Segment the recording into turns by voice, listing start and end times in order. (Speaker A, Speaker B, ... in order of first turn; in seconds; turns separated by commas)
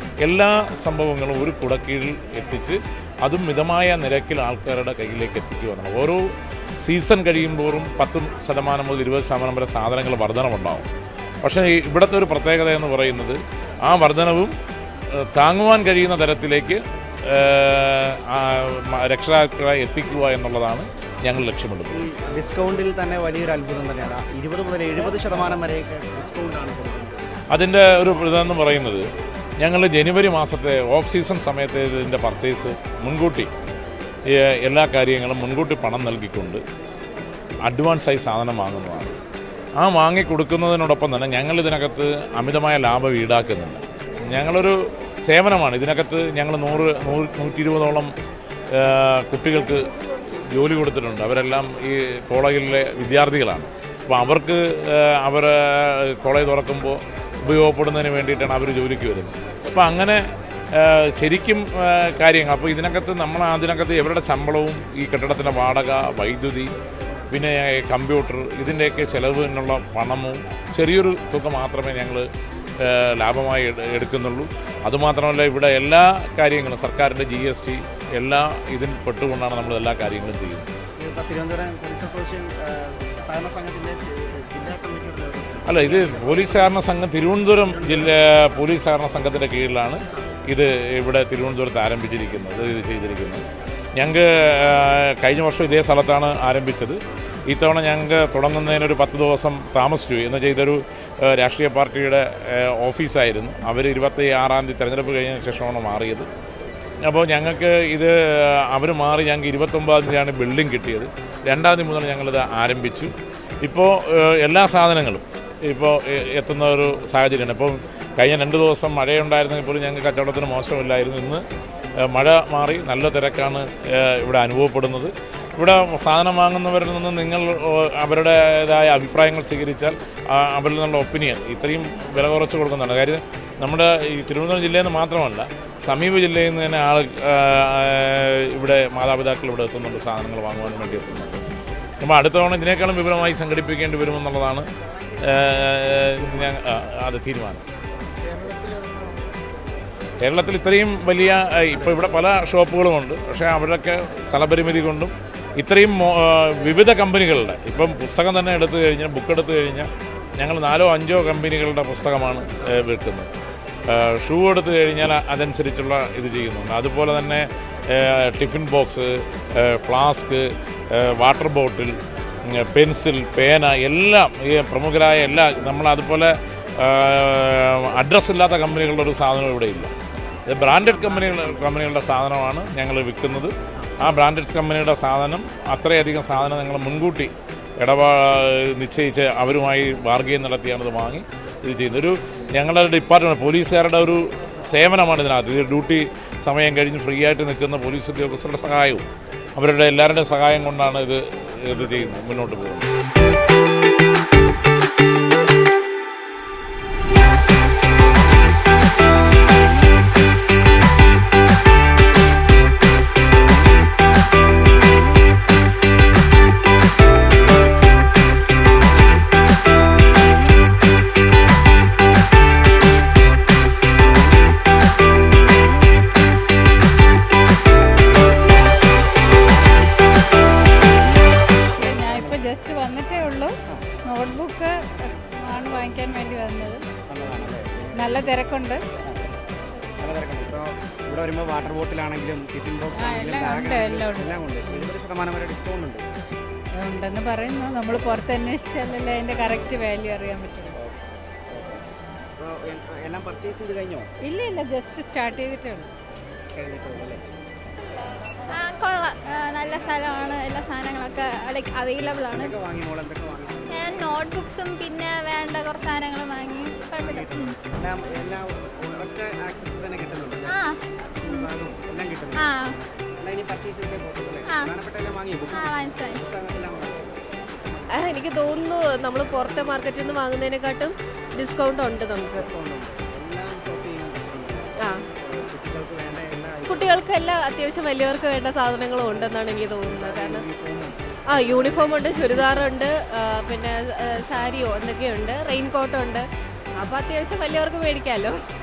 Speaker A: 0.2-6.2, Speaker A: 6.8-10.9, Speaker A: 11.4-14.5, Speaker A: 15.3-22.0, Speaker B: 21.9-27.2, Speaker A: 27.5-29.1, Speaker A: 29.6-33.5, Speaker A: 34.3-36.6, Speaker A: 37.7-39.2, Speaker A: 39.8-48.1, Speaker A: 48.7-49.9, Speaker A: 50.5-60.2, Speaker A: 60.8-66.7, Speaker A: 67.3-72.3, Speaker A: 72.8-80.7, Speaker B: 81.0-86.7, Speaker A: 85.7-93.5, Speaker B: 87.7-88.2, Speaker A: 94.0-106.3, Speaker A: 107.1-113.1, Speaker A: 113.7-121.4, Speaker A: 122.1-141.4, Speaker A: 142.0-144.7, Speaker A: 145.2-147.6, Speaker A: 150.2-163.3, Speaker A: 163.9-179.9, Speaker A: 180.5-199.1, Speaker B: 180.9-181.6, Speaker A: 199.6-202.9, Speaker C: 231.8-233.6, Speaker B: 231.8-232.4, Speaker C: 234.1-236.8, Speaker B: 237.1-238.4, Speaker C: 237.9-238.8, Speaker B: 240.0-246.0, Speaker C: 243.0-244.9, Speaker C: 246.8-250.7, Speaker B: 252.4-254.1, Speaker C: 254.2-255.9, Speaker B: 256.6-257.2, Speaker D: 258.5-262.6, Speaker B: 262.3-264.1, Speaker D: 263.7-267.6, Speaker B: 267.0-270.6, Speaker D: 270.5-270.8, Speaker B: 271.2-272.5, Speaker D: 272.4-272.7, Speaker B: 273.2-277.1, Speaker D: 275.5-276.3, Speaker E: 277.9-282.5, Speaker B: 282.3-287.0, Speaker E: 286.7-290.4, Speaker B: 289.8-292.7, Speaker E: 291.3-296.3, Speaker E: 296.8-298.4